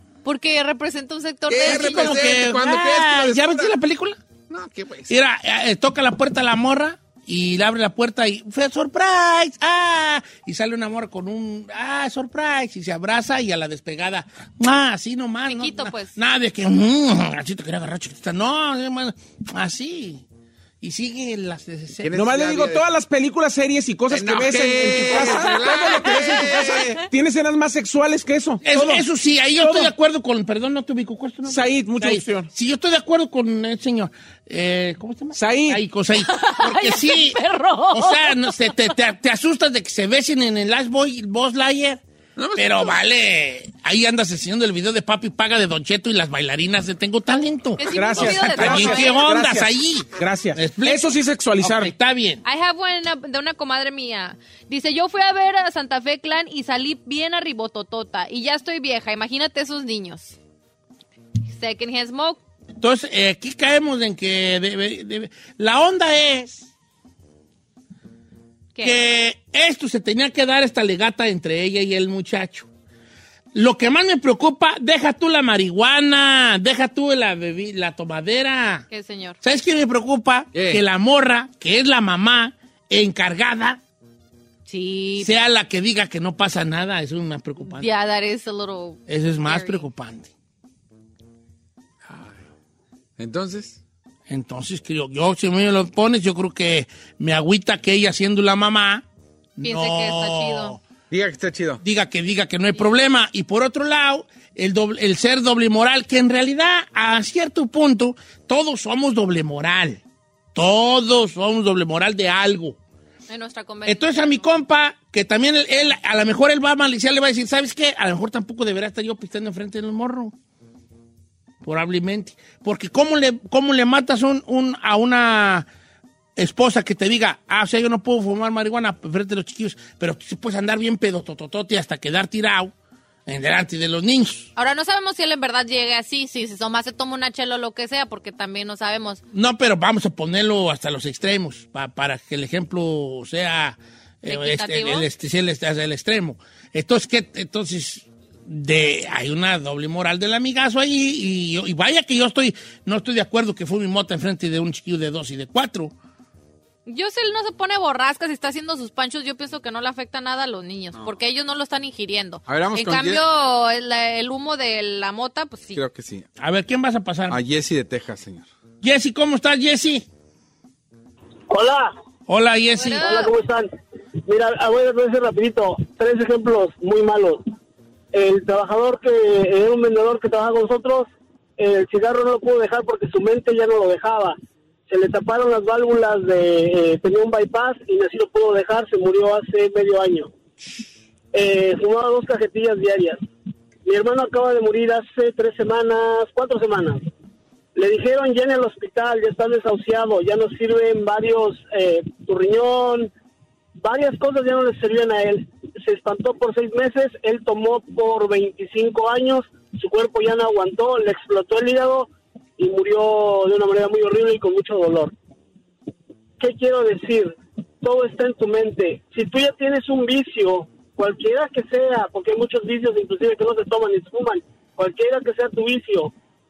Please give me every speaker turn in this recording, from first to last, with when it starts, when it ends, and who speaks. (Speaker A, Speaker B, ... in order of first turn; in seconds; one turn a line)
Speaker A: 0.2-2.3
Speaker B: 1.5-3.8
Speaker C: 1.6-4.2
Speaker B: 4.5-5.2
Speaker C: 5.1-20.2
Speaker A: 15.5-16.1
Speaker C: 20.8-22.1
Speaker B: 22.0-22.8
Speaker D: 22.1-29.0
Speaker B: 24.1-27.1
Speaker A: 25.4-26.8
Speaker C: 28.6-37.4
Speaker D: 29.6-29.9
Speaker D: 31.4-32.5
Speaker D: 35.3-35.8
Speaker A: 36.2-38.8
Speaker C: 37.9-42.0
Speaker B: 42.4-43.0
Speaker C: 42.5-52.4
Speaker A: 47.8-49.2
Speaker D: 47.9-51.9
Speaker A: 52.4-60.4
Speaker A: 61.5-62.4
Speaker C: 62.8-66.7
Speaker A: 68.7-69.0
Speaker C: 68.8-72.7
Speaker C: 73.5-78.9
Speaker A: 78.9-79.4
Speaker C: 79.4-83.8
Speaker B: 80.5-80.8
Speaker A: 84.7-85.4
Speaker C: 85.2-87.9
Speaker A: 87.7-89.8
Speaker C: 89.1-90.3
Speaker B: 92.1-92.4
Speaker B: 93.2-93.8
Speaker C: 94.3-99.0
Speaker C: 99.6-100.8
Speaker A: 99.6-100.8
Speaker B: 101.1-101.8
Speaker C: 101.8-110.0
Speaker C: 110.5-112.8
Speaker A: 113.3-114.4
Speaker C: 113.8-120.3
Speaker C: 121.6-125.7
Speaker C: 126.4-132.7
Speaker C: 133.3-134.5
Speaker A: 134.6-139.2
Speaker C: 139.3-155.9
Speaker A: 144.2-145.1
Speaker A: 156.8-165.8
Speaker B: 162.5-163.2
Speaker B: 165.7-166.3
Speaker C: 166.4-167.4
Speaker B: 167.3-168.4
Speaker C: 168.8-170.0
Speaker E: 171.5-171.9
Speaker C: 172.3-173.1
Speaker A: 172.8-173.3
Speaker E: 173.0-173.7
Speaker E: 174.2-177.4
Speaker E: 178.1-184.3
Speaker E: 184.9-190.3
Speaker E: 191.3-193.2
Speaker E: 193.8-197.0
Speaker E: 197.7-203.1
Speaker E: 203.8-215.1
Speaker E: 216.4-226.1